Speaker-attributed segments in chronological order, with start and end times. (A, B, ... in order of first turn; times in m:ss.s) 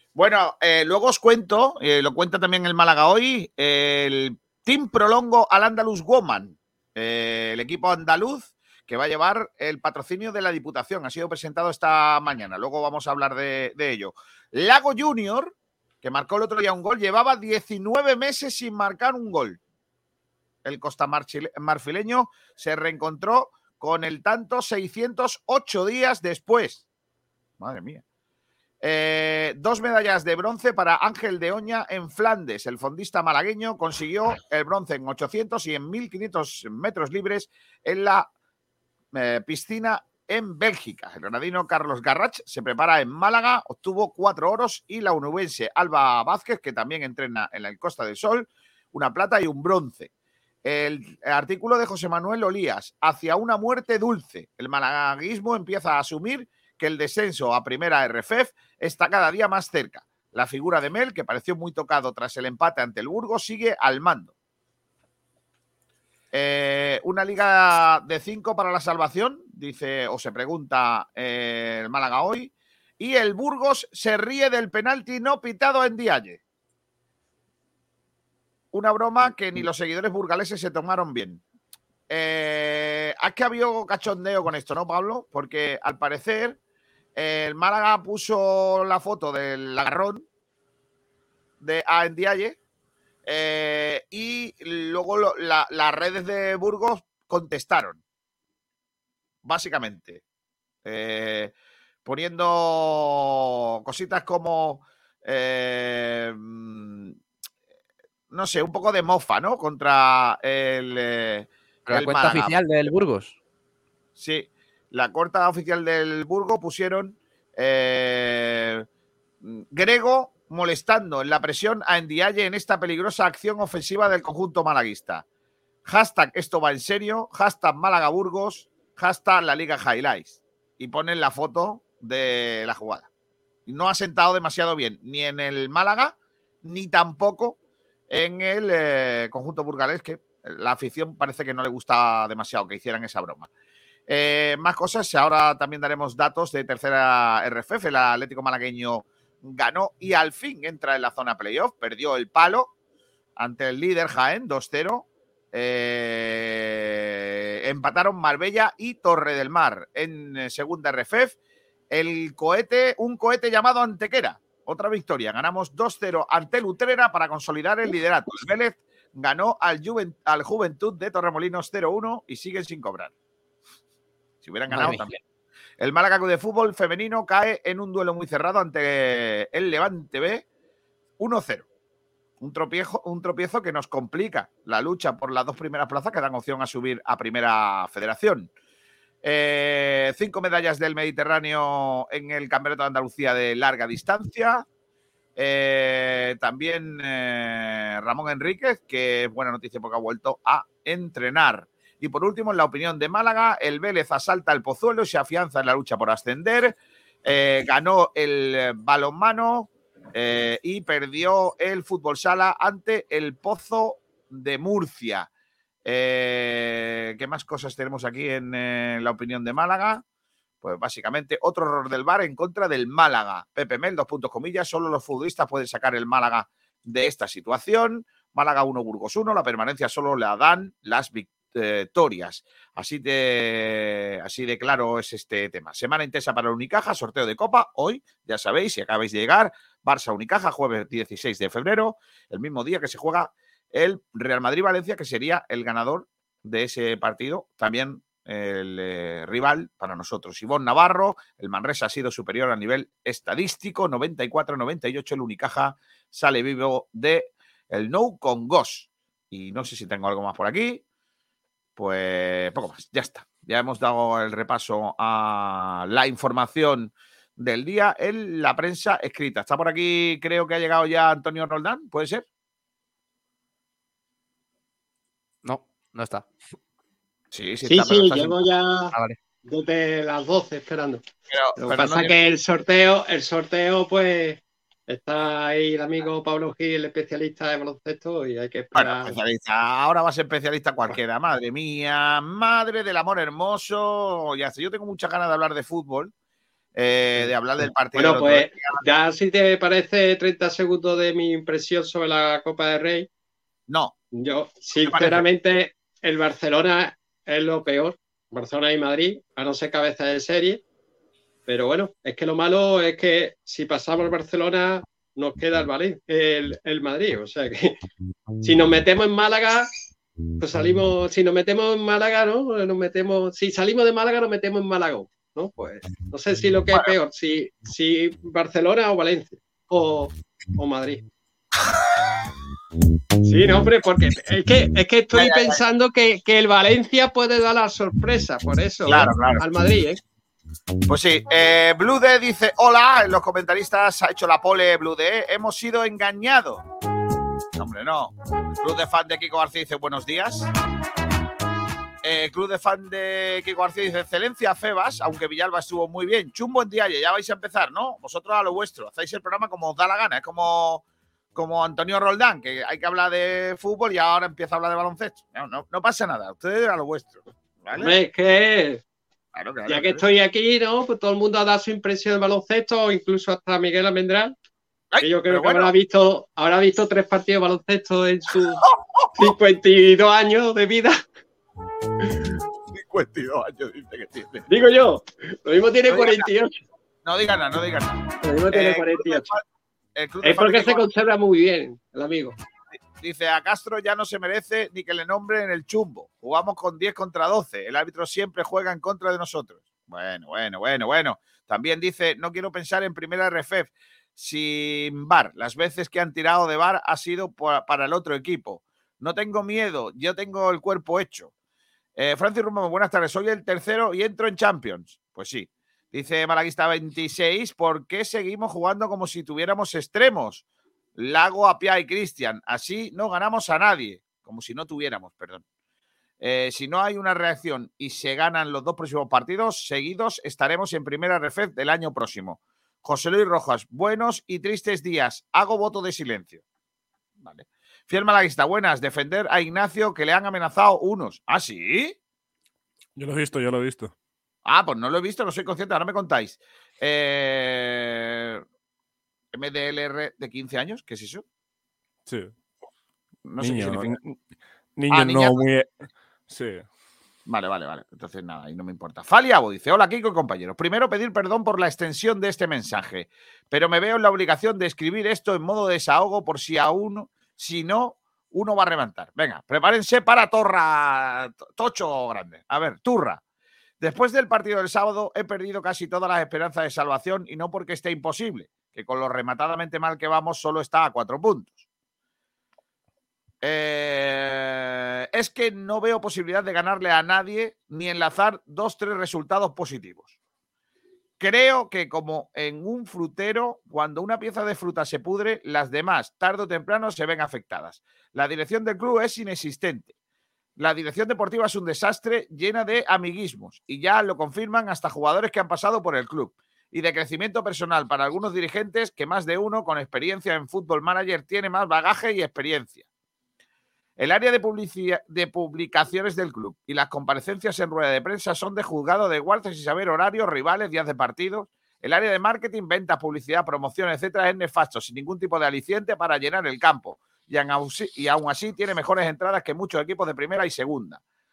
0:00.2-0:19.6 A
0:20.6-0:26.8 A
0:27.6-0:28.0 A
0:28.8-0:38.3 A
0:39.1-0:50.1 A
0:50.6-1:04.3 A
1:06.3-1:16.4 A
1:18.7-1:21.4 A
1:22.1-1:26.6 A
1:27.1-1:30.2 A
1:31.6-1:32.6 A
1:33.2-1:38.0 A
1:39.4-1:40.2 A
1:40.8-1:41.5 A
1:42.0-1:47.2 A
1:48.3-1:52.5 A
1:51.8-1:53.3 B
1:54.2-1:58.8 A
1:59.4-2:05.2 A
2:05.8-2:13.1 A
2:13.6-2:17.6 A
2:18.1-2:23.5 A
2:24.1-2:32.7 A
2:33.4-2:41.3 A
2:41.9-2:53.1 A
2:54.4-2:55.2 A
2:54.7-2:55.1 B
2:55.8-3:00.4 A
3:01.2-3:01.6 A
3:02.4-3:08.5 A
3:09.2-3:14.6 A
3:15.4-3:35.3 A
3:35.8-3:40.0 A
3:40.6-4:20.8 A
4:21.8-4:32.2 A
4:35.4-4:36.3 B
4:37.3-4:38.4 A
4:37.6-4:41.0 C
4:41.3-4:42.1 A
4:41.6-4:49.1 C
4:48.7-4:56.1 A
4:56.7-4:58.8 A
4:57.9-5:03.1 C
5:03.7-5:03.9 A
5:04.1-5:10.6 C
5:04.8-5:05.2 A
5:11.5-5:17.7 C
5:18.4-5:19.7 C
5:20.4-5:31.0 C
5:33.2-5:40.0 C
5:35.1-5:35.6 A
5:38.8-5:39.4 A
5:40.9-5:46.6 A
5:47.5-5:50.5 A
5:52.0-6:00.8 A
6:01.3-6:08.0 A
6:07.7-6:08.8 C
6:09.3-6:10.0 A
6:09.7-6:14.3 C
6:14.9-6:15.7 A
6:15.0-6:18.6 C
6:18.6-6:19.3 A
6:19.2-6:21.0 C
6:22.7-6:24.5 A
6:24.5-6:26.5 C
6:25.9-6:26.3 A
6:27.0-6:29.4 A
6:28.2-6:29.3 C
6:29.9-6:30.9 A
6:30.2-6:32.4 C
6:33.0-6:51.3 A
6:52.0-7:00.4 A
7:01.0-7:05.4 A
7:06.2-7:16.4 A
7:17.2-7:22.0 A
7:23.0-7:23.9 D
7:24.4-7:28.4 A
7:29.3-7:31.2 A
7:32.0-7:32.3 D
7:33.2-7:34.0 A
7:33.4-7:34.2 D
7:34.8-7:36.6 D
7:34.9-7:35.4 A
7:37.3-7:53.2 A
7:53.8-8:01.6 A
8:03.4-8:10.1 A
8:11.2-8:19.9 A
8:20.6-8:32.8 A
8:34.0-8:51.0 A